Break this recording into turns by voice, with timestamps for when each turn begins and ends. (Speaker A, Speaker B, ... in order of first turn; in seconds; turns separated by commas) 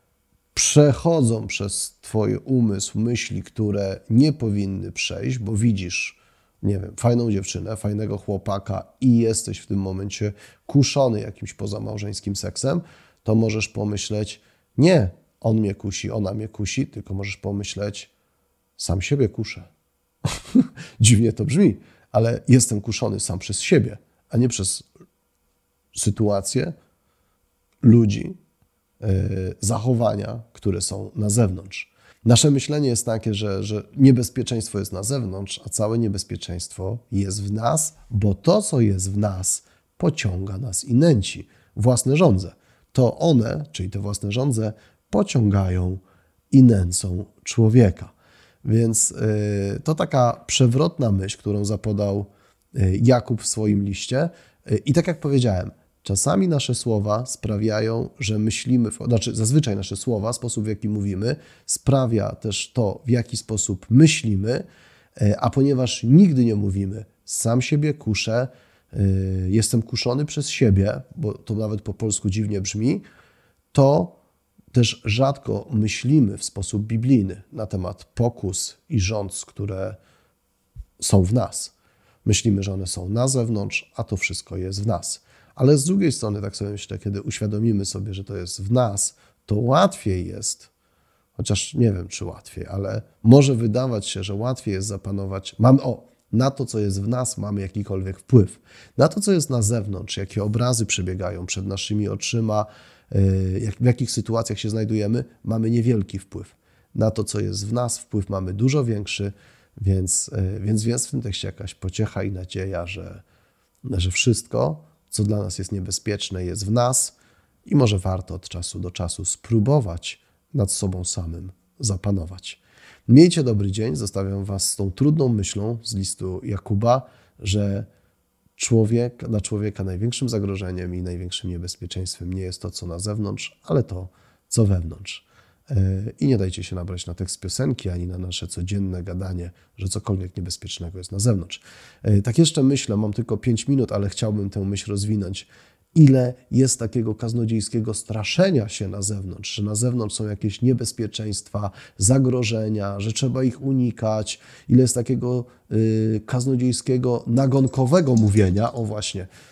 Speaker A: 0.5-18.1, Speaker A: 18.8-19.7, Speaker A: 20.5-24.9, Speaker A: 25.9-26.7, Speaker A: 27.8-28.4, Speaker A: 29.0-48.1, Speaker A: 48.6-64.7, Speaker A: 65.2-73.0, Speaker A: 73.7-74.2, Speaker A: 74.7-80.0, Speaker A: 81.0-90.7, Speaker A: 91.4-113.2, Speaker A: 113.8-127.9, Speaker A: 128.6-159.3